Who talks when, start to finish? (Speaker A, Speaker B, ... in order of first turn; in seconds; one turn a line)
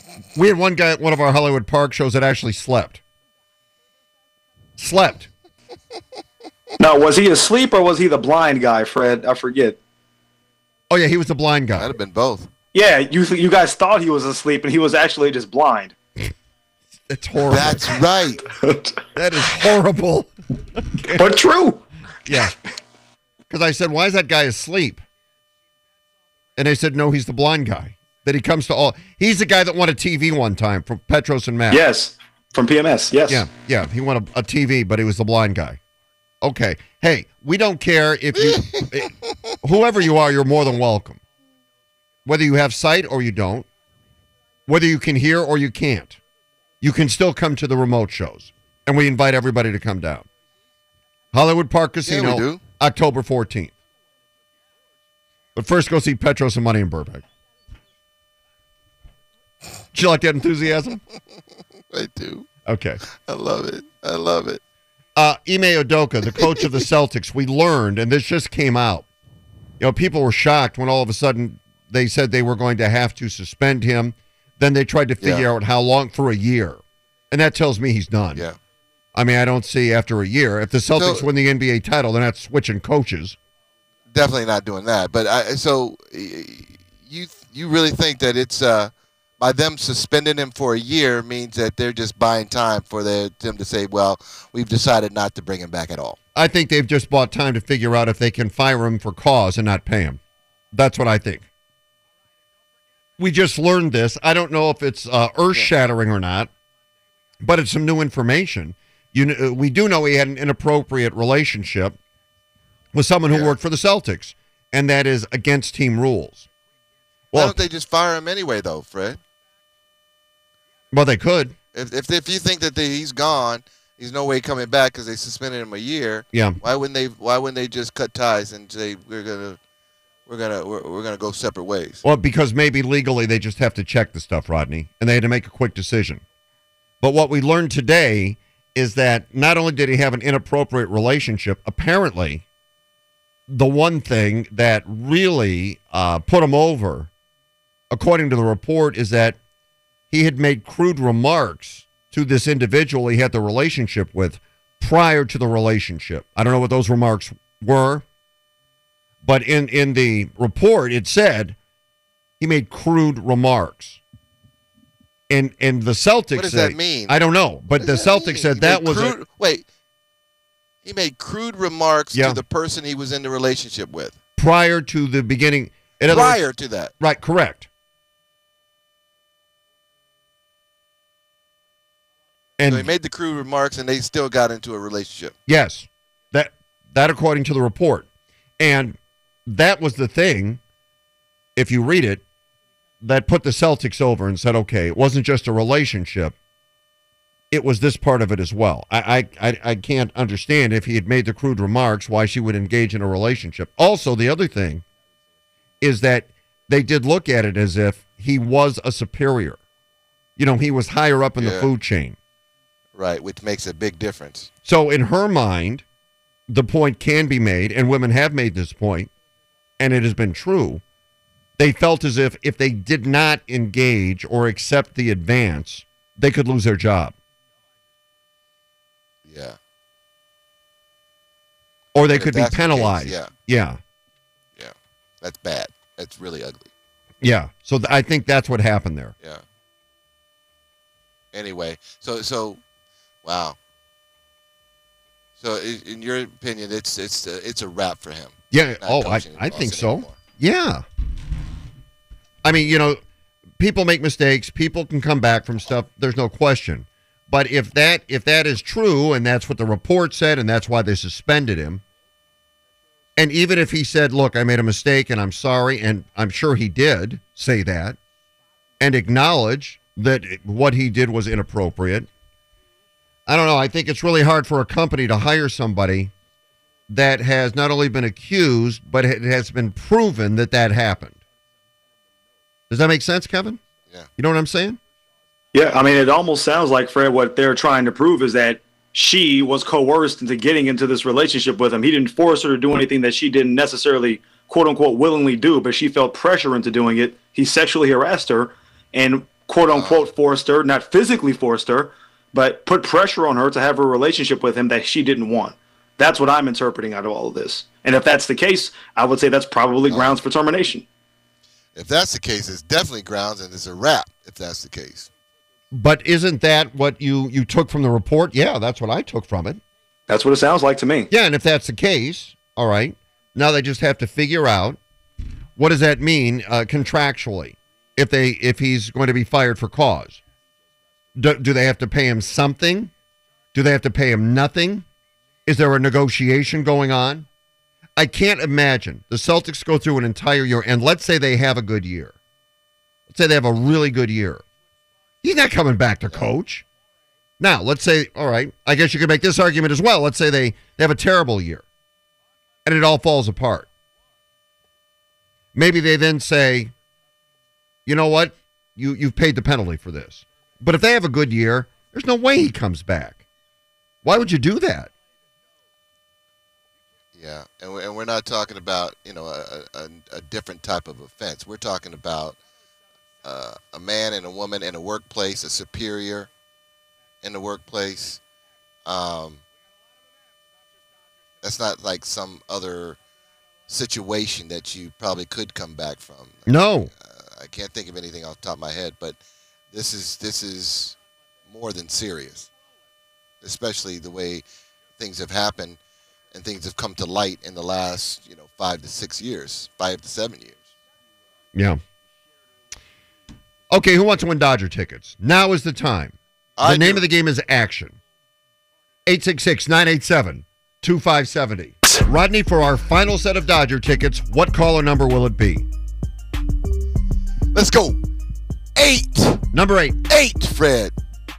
Speaker A: 0.3-3.0
Speaker A: 4.8-5.3
Speaker B: 6.8-9.8
Speaker A: 10.9-11.9
Speaker C: 11.8-12.5
Speaker B: 12.7-15.9
Speaker A: 17.1-17.9
Speaker C: 17.4-18.4
Speaker B: 18.6-19.0
Speaker A: 19.1-20.3
Speaker B: 21.0-21.8
Speaker A: 22.2-22.5
Speaker A: 23.5-25.0
Speaker A: 26.6-31.9
Speaker B: 31.7-33.5
Speaker A: 33.3-35.8
Speaker A: 36.4-41.2
Speaker C: 38.4-38.9
Speaker A: 42.2-43.7
Speaker A: 44.7-46.2
Speaker A: 46.8-50.2
Speaker A: 51.3-53.7
Speaker C: 52.0-52.6
Speaker A: 55.5-57.2
Speaker A: 59.9-61.0
Speaker C: 61.9-62.5
Speaker A: 62.6-63.0
Speaker C: 63.1-64.6
Speaker A: 65.2-69.0
Speaker A: 69.8-78.4
Speaker C: 75.2-75.5
Speaker A: 79.1-83.4
Speaker C: 80.9-81.2
Speaker C: 84.1-96.2
Speaker A: 96.3-100.2
Speaker A: 100.7-101.5
Speaker A: 103.2-106.5
Speaker A: 107.4-112.0
Speaker A: 112.9-116.5
Speaker A: 117.3-117.6
Speaker C: 117.3-119.2
Speaker A: 120.9-121.5
Speaker C: 121.7-129.6
Speaker A: 126.3-126.6
Speaker C: 130.3-132.0
Speaker A: 132.0-136.2
Speaker A: 137.0-142.4
Speaker A: 143.5-147.1
Speaker A: 147.9-149.4
Speaker A: 150.1-158.0
Speaker A: 159.2-161.6
Speaker A: 162.4-164.0
Speaker A: 165.3-169.2
Speaker C: 166.3-167.2
Speaker C: 167.7-169.6
Speaker C: 170.8-174.2
Speaker A: 172.1-172.4
Speaker A: 174.4-176.4
Speaker C: 176.0-176.9
Speaker A: 177.0-177.7
Speaker A: 182.6-182.9
Speaker C: 182.7-185.3
Speaker A: 185.5-188.1
Speaker A: 188.6-190.6
Speaker A: 191.6-192.2
Speaker A: 193.0-196.3
Speaker A: 197.5-204.8
Speaker A: 205.8-209.6
Speaker A: 210.4-212.2
Speaker C: 211.4-211.7
Speaker C: 212.9-214.5
Speaker A: 214.6-215.8
Speaker A: 216.5-219.1
Speaker A: 219.8-220.8
Speaker A: 221.6-227.2
Speaker C: 229.2-229.6
Speaker A: 231.9-233.8
Speaker C: 232.0-233.3
Speaker C: 234.6-236.7
Speaker A: 237.2-239.1
Speaker C: 241.3-242.6
Speaker C: 243.2-243.6
Speaker C: 245.4-250.2
Speaker A: 248.5-250.8
Speaker A: 252.4-253.0
Speaker A: 253.6-261.8
Speaker A: 263.1-268.0
Speaker A: 268.8-272.1
Speaker A: 273.3-276.1
Speaker A: 276.9-281.2
Speaker A: 282.7-283.6
Speaker A: 284.2-284.8
Speaker B: 285.5-310.8
Speaker C: 299.7-300.1
Speaker C: 309.9-310.2
Speaker C: 311.7-315.1
Speaker A: 315.7-319.6
Speaker B: 320.1-321.1
Speaker A: 321.1-324.8
Speaker A: 325.6-330.2
Speaker A: 331.1-332.9
Speaker A: 333.5-334.9
Speaker A: 335.4-337.2
Speaker A: 338.0-342.1
Speaker A: 343.1-344.4
Speaker A: 345.2-346.6
Speaker A: 347.4-351.6
Speaker A: 352.6-353.7
Speaker A: 355.5-356.7
Speaker A: 357.9-363.2
Speaker A: 364.0-364.9
Speaker C: 367.1-372.4
Speaker C: 373.2-376.3
Speaker C: 377.2-378.2
Speaker C: 378.9-379.4
Speaker C: 381.4-383.0
Speaker C: 383.7-389.2
Speaker A: 386.4-386.9
Speaker C: 389.7-390.9
Speaker C: 391.5-392.5
Speaker C: 393.4-394.4
Speaker C: 395.0-395.8
Speaker C: 396.3-400.7
Speaker A: 401.5-401.8
Speaker A: 403.7-408.0
Speaker C: 406.6-407.0
Speaker A: 409.1-415.6
Speaker C: 417.5-418.0
Speaker C: 418.7-419.4
Speaker A: 419.5-420.0
Speaker C: 420.1-420.9